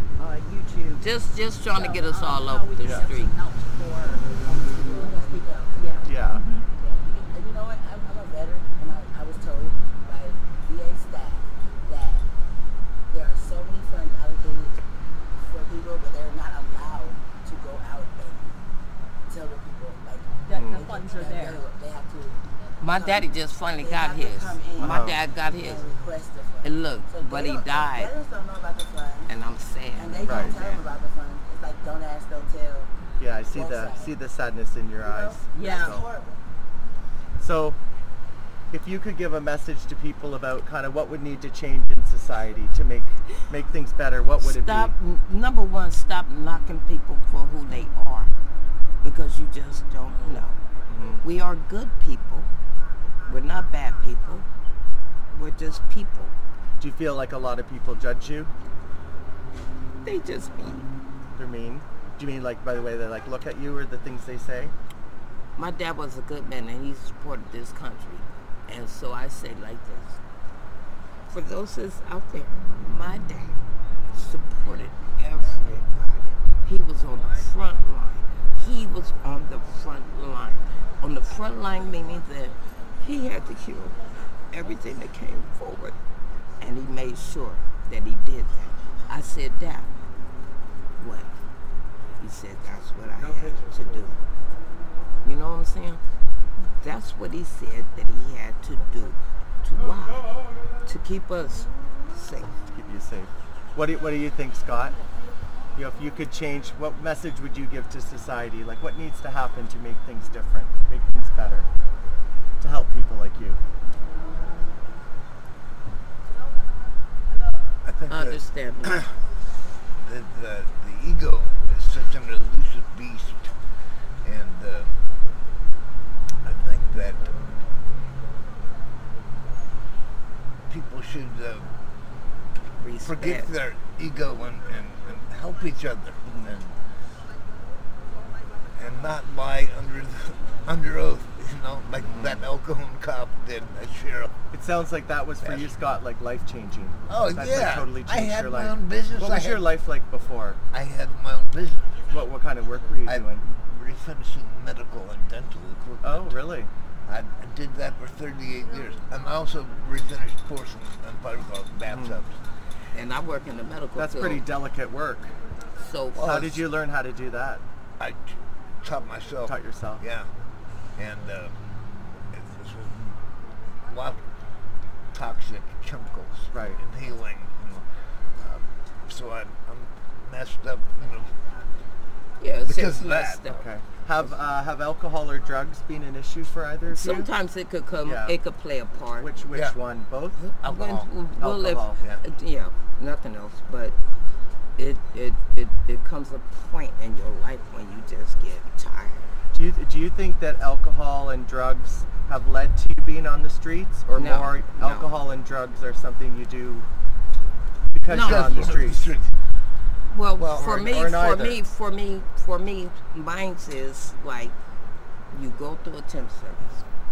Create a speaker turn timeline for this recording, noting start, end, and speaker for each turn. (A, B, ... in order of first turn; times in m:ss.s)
0:00.2-0:01.0 A
0:01.0-0:03.3 B
0:01.7-0:06.6 A
0:04.3-0:06.1 C
0:06.0-0:06.4 D
0:06.8-0:12.2 C
0:13.1-0:14.8 C
0:15.4-0:18.5 C
0:19.3-0:29.3 C
0:20.4-0:21.6 A
0:22.8-0:25.8 B
0:24.8-0:25.2 D
0:26.6-0:28.1 B
0:29.3-0:30.8 B
0:30.0-0:32.9 C
0:30.2-0:30.5 D
0:33.2-0:36.0 D
0:33.5-0:34.1 C
0:35.0-0:36.4 C
0:35.5-0:36.0 A
0:37.4-0:37.8 D
0:38.7-0:44.9 D
0:44.4-0:48.3 B
0:49.0-0:50.6 B
0:50.9-0:51.2 D
0:51.2-0:52.5 B
0:53.2-0:54.5 B
0:55.3-0:56.3 B
0:56.8-0:58.5 D
1:00.0-1:00.9 B
1:01.4-1:04.7 D
1:05.6-1:10.2 B
1:11.3-1:13.6 B
1:14.1-1:24.0 B
1:24.5-1:26.0 B
1:26.6-1:29.9 B
1:31.0-1:31.3 B
1:32.2-1:34.2 B
1:35.2-1:36.0 B
1:36.6-1:42.5 B
1:42.7-1:45.0 D
1:45.7-1:51.7 D
1:52.6-1:53.6 D
1:57.8-1:59.0 E
1:58.1-1:59.1 B
2:00.0-2:03.5 E
2:04.2-2:04.9 E
2:06.4-2:07.3 E
2:10.7-2:11.7 E
2:12.8-2:13.6 B
2:13.0-2:16.7 E
2:16.3-2:16.5 D
2:18.8-2:24.3 E
2:22.0-2:22.4 D
2:24.5-2:30.6 D
2:27.1-2:29.7 E
2:30.7-2:32.0 E
2:32.1-2:33.4 D
2:33.0-2:36.3 E
2:36.0-2:36.7 D
2:37.1-2:42.4 E
2:41.8-2:42.2 D
2:42.9-2:44.5 B
2:44.0-2:45.3 D
2:45.8-2:46.6 B
2:46.1-2:47.6 D
2:48.0-2:50.3 E
2:49.4-2:50.0 D
2:51.0-2:51.5 E
2:52.3-2:53.2 E
2:53.9-2:54.2 E
2:55.1-2:57.8 E
2:56.5-2:56.8 D
2:58.4-3:01.3 E
3:02.4-3:03.6 B
3:02.7-3:03.4 E
3:03.5-3:07.3 D
3:06.9-3:09.4 B
3:08.0-3:08.4 D
3:09.2-3:10.4 D
3:10.6-3:11.1 E
3:10.6-3:14.0 B
3:11.4-3:12.0 D
3:12.0-3:12.2 E
3:14.8-3:19.3 B
3:19.5-3:26.9 D
3:24.1-3:25.1 B
3:27.9-3:29.1 D
3:28.1-3:28.9 B
3:28.1-3:29.3 E
3:30.0-3:34.5 B
3:30.4-3:30.8 E
3:30.5-3:31.6 D
3:35.3-3:36.8 B